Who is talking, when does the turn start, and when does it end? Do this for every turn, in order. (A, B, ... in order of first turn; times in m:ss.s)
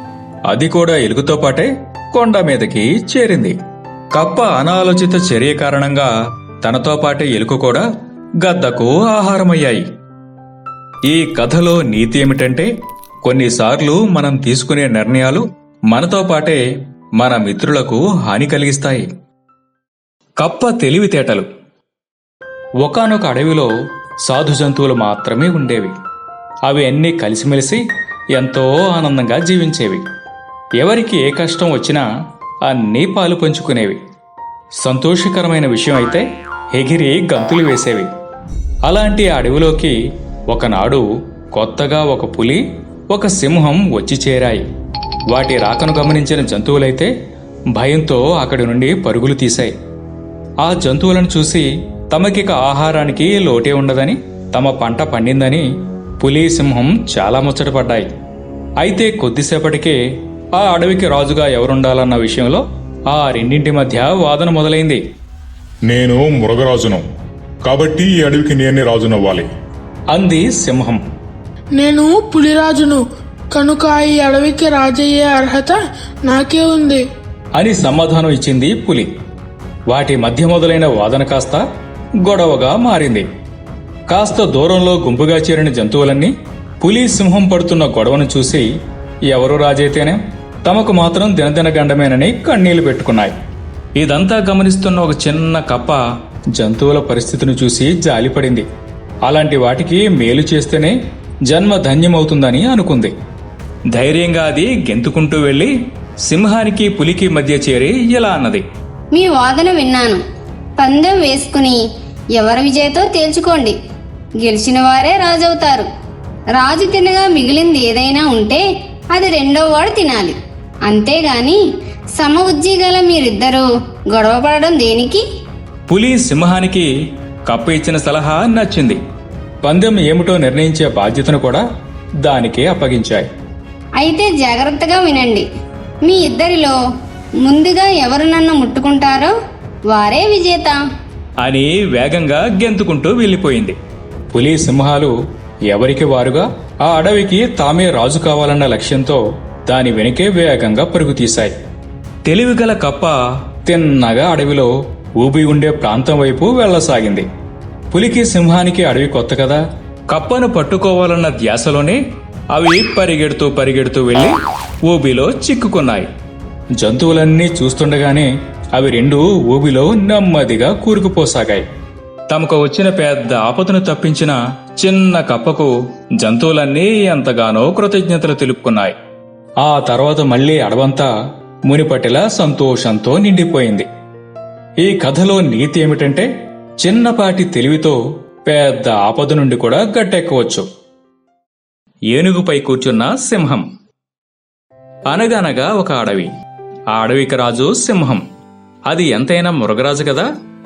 0:00.5-0:03.6 A
0:04.1-0:06.1 A
0:06.6-0:07.9 A
0:08.4-0:09.8 A
0:11.1-0:12.7 A
0:13.2-0:16.6 A
0:17.2-0:19.1 A
0:20.4-0:21.5 A
0:22.8-0:23.7 A
0:24.2-0:25.9 A
0:26.7-0:27.8 A
0:28.4-0:30.0 A
0:30.8-0:32.0 A
0:32.7-0:34.0 A
0:34.8-0:38.1 A
0:38.8-0:40.0 A
0:40.5-0:44.6 A
0:45.3-0:47.1 A
0:47.8-0:49.7 A
0:50.6-0:55.7 A
0:56.2-0:58.1 A
0:58.8-1:00.0 A
1:00.6-1:05.0 A
1:05.9-1:07.0 B
1:07.7-1:09.5 B
1:10.1-1:11.0 A
1:11.8-1:13.0 C
1:13.5-1:17.0 C
1:17.6-1:19.1 A
1:19.9-1:21.6 A
1:22.2-1:23.3 A
1:24.1-1:28.7 A
1:29.3-1:33.4 A
1:34.0-1:36.0 A
1:36.6-1:38.7 A
1:39.3-1:41.0 A
1:41.5-1:43.1 A
1:43.9-1:45.7 A
1:46.2-1:48.6 A
1:49.1-1:50.2 D
1:50.8-1:51.8 D
1:52.4-1:53.8 D
1:54.4-1:55.9 D
1:56.6-2:00.4 D
2:00.9-2:01.6 D
2:02.2-2:05.2 D
2:05.9-2:06.9 A
2:07.5-2:09.0 A
2:09.6-2:11.6 A
2:12.2-2:13.3 A
2:14.0-2:15.4 D
2:16.1-2:16.8 D
2:17.4-2:19.3 D
2:19.9-2:20.8 D
2:21.4-2:23.8 A
2:24.3-2:25.1 A
2:25.7-2:31.5 A
2:32.2-2:37.3 A
2:37.9-2:42.0 A
2:42.5-2:46.1 A
2:46.8-2:51.7 A
2:52.3-2:59.0 A
2:59.6-3:01.1 A
3:01.7-3:03.9 A
3:04.8-3:06.3 A
3:06.8-3:10.7 A
3:12.1-3:13.7 A
3:15.1-3:16.3 A
3:16.9-3:18.2 A
3:18.9-3:20.3 A